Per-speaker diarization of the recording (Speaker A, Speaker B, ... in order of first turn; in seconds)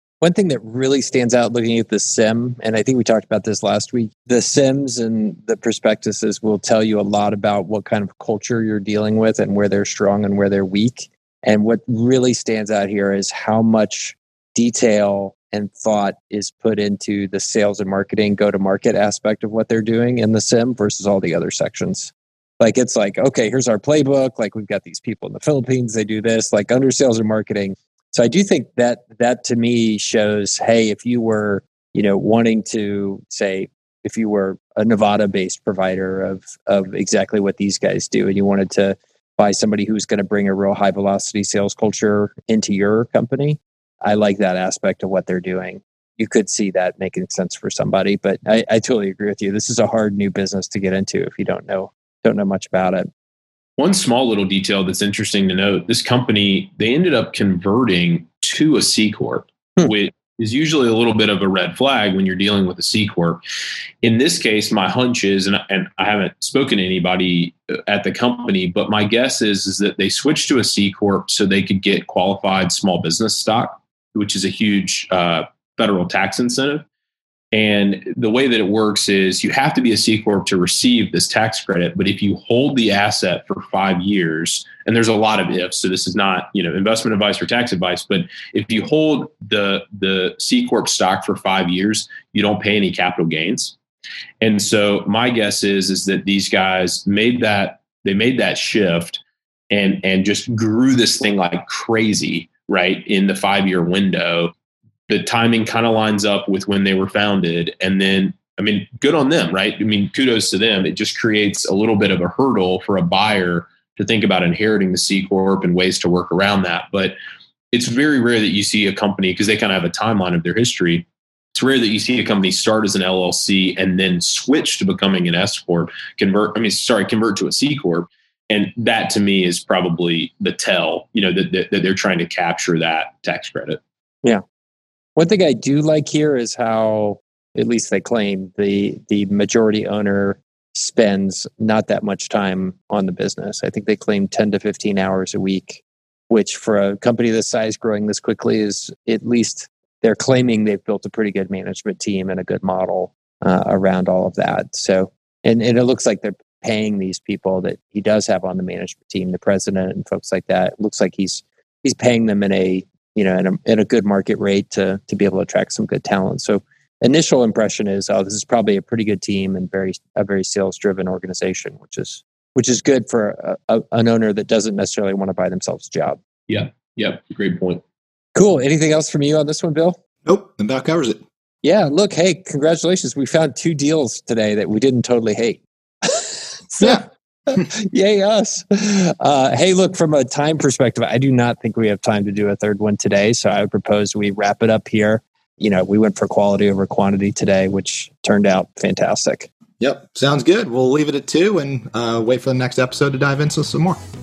Speaker A: 0.2-53.1, 135.2-176.2, 178.3-180.0, 181.6-199.5
Speaker B: 53.8-63.4, 64.0-76.8, 77.5-93.8, 94.4-104.5, 105.1-117.1, 117.7-133.8, 176.5-177.8
Speaker C: 180.2-181.2, 199.8-204.0